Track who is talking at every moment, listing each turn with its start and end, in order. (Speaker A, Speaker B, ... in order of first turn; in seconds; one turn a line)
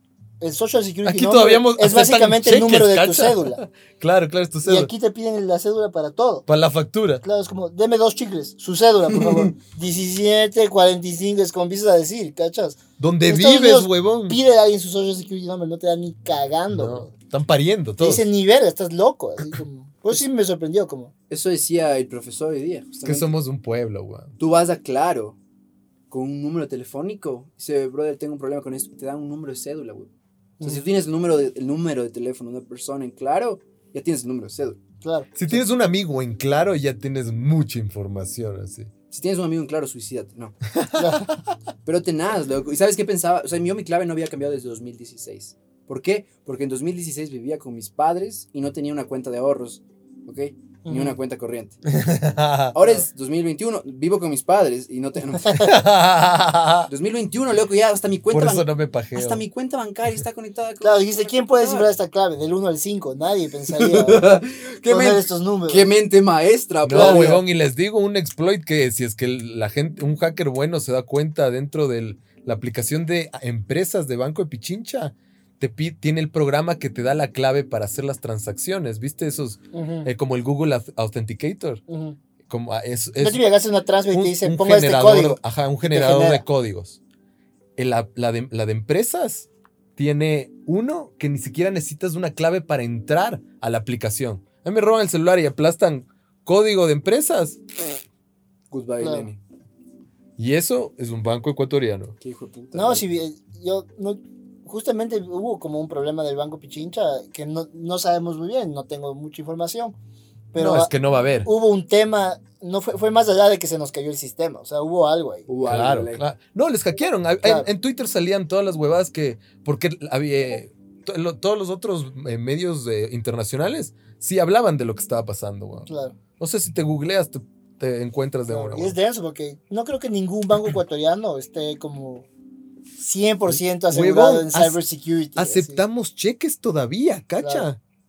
Speaker A: 0.4-3.6
Speaker B: 1.0-4.9
Speaker A: 4.6-6.4
Speaker B: 6.5-7.2
Speaker A: 7.2-17.1
Speaker C: 9.1-9.5
Speaker B: 13.0-14.4
Speaker B: 16.7-18.3
Speaker A: 18.0-21.1
Speaker C: 21.3-23.3
Speaker B: 23.0-24.3
Speaker C: 24.4-25.4
Speaker C: 26.1-30.1
Speaker C: 30.6-34.8
Speaker A: 35.0-35.6
Speaker B: 35.4-38.9
Speaker C: 39.1-40.5
Speaker B: 40.7-41.2
Speaker A: 41.0-41.3
Speaker C: 41.8-51.8
Speaker A: 50.8-51.2
Speaker B: 51.9-52.7
Speaker C: 52.7-55.8
Speaker A: 52.8-53.0
Speaker A: 55.4-55.7
Speaker B: 55.6-56.9
Speaker C: 56.9-61.9
Speaker B: 58.3-59.4
Speaker A: 60.8-65.9
Speaker C: 63.7-67.4
Speaker B: 66.8-81.8
Speaker A: 66.9-67.4
Speaker A: 79.7-80.1
Speaker A: 81.9-82.2
Speaker B: 82.5-83.4
Speaker A: 83.2-86.4
Speaker B: 84.1-87.0
Speaker B: 87.8-97.6
Speaker C: 98.7-99.4
Speaker A: 99.0-99.3
Speaker B: 100.4-102.2
Speaker C: 102.2-103.0
Speaker A: 102.7-110.0
Speaker A: 110.5-110.9
Speaker B: 110.5-111.5
Speaker A: 111.4-115.5
Speaker C: 115.5-116.2
Speaker B: 115.7-125.9
Speaker A: 117.4-117.7
Speaker A: 125.9-126.2
Speaker B: 126.4-128.9
Speaker A: 128.5-132.3
Speaker A: 133.0-135.8
Speaker B: 133.9-134.8
Speaker B: 135.3-137.8
Speaker A: 137.4-137.7